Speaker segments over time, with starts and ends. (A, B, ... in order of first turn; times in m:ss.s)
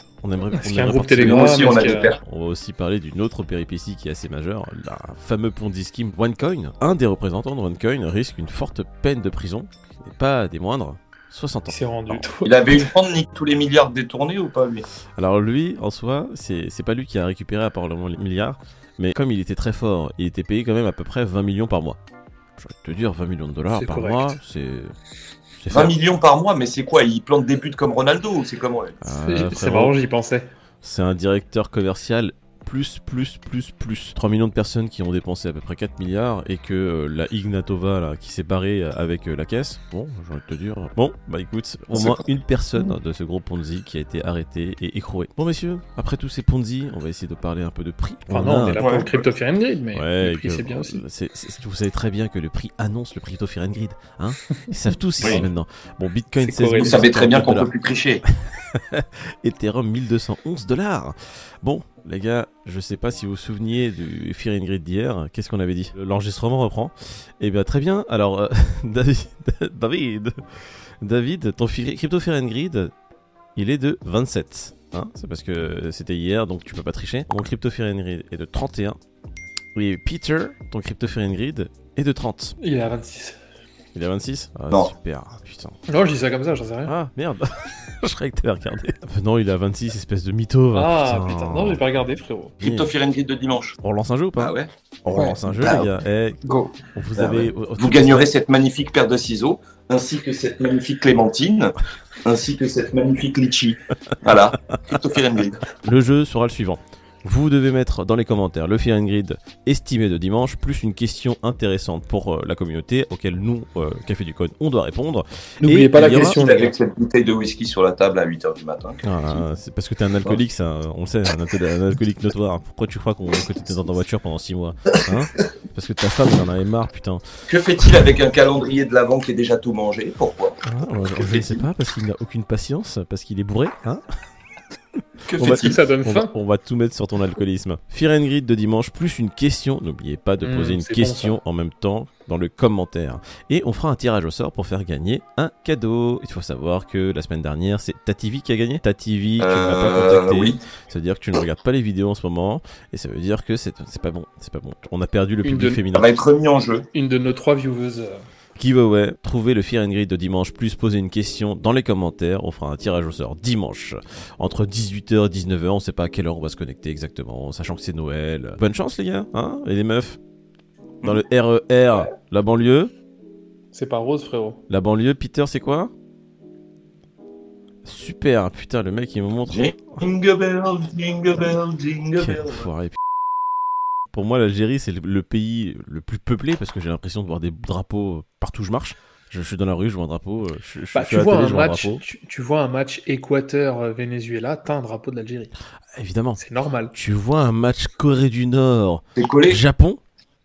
0:00.2-0:12.2 A
0:00.5-0:02.1 B
0:01.2-0:02.2 C
0:11.7-0:12.9 B
0:12.4-0:14.8 C
0:15.2-0:22.0 A
0:22.6-0:24.9 A
0:23.7-0:24.3 B
0:25.6-0:25.9 A
0:25.7-0:29.0 C
0:29.0-0:29.9 A
0:29.2-0:30.5 B
0:30.8-0:48.8 A
0:41.9-0:42.9 C
0:48.3-0:51.0 B
0:48.8-0:49.1 C
0:49.9-0:57.7 A
0:55.2-0:55.5 C
0:56.4-0:57.0 B
0:56.8-0:58.2 C
0:58.3-1:12.9 A
1:13.6-1:19.0 A
1:19.8-1:22.6 A
1:22.6-1:23.4 B
1:24.0-1:25.8 A
1:25.9-1:26.9 B
1:26.9-1:31.8 A
1:30.7-1:32.6 B
1:32.6-1:32.9 A
1:32.6-1:33.8 C
1:33.8-1:38.3 A
1:34.4-1:35.9 C
1:35.1-1:35.4 B
1:36.4-1:36.7 B
1:37.2-1:45.6 C
1:45.8-1:56.4 A
1:55.6-1:56.7 B
1:56.0-1:59.4 C
1:59.0-2:07.2 A
2:07.5-2:10.6 C
2:10.6-2:14.0 A
2:11.1-2:11.6 C
2:15.3-2:15.8 C
2:15.4-2:36.1 A
2:15.5-2:16.3 B
2:20.4-2:21.4 B
2:29.4-2:30.6 C
2:35.4-2:35.8 B
2:35.9-2:36.9 C
2:36.9-2:38.2 B
2:38.6-2:50.2 A
2:51.0-2:52.9 A
2:53.7-2:54.6 B
2:54.7-2:55.9 A
2:57.8-3:00.0 A
2:59.5-3:02.7 C
3:02.2-3:03.0 A
3:04.1-3:12.0 A
3:10.9-3:15.5 B
3:15.9-3:16.4 A
3:16.4-3:16.9 B
3:16.9-3:20.0 A
3:19.2-3:19.6 C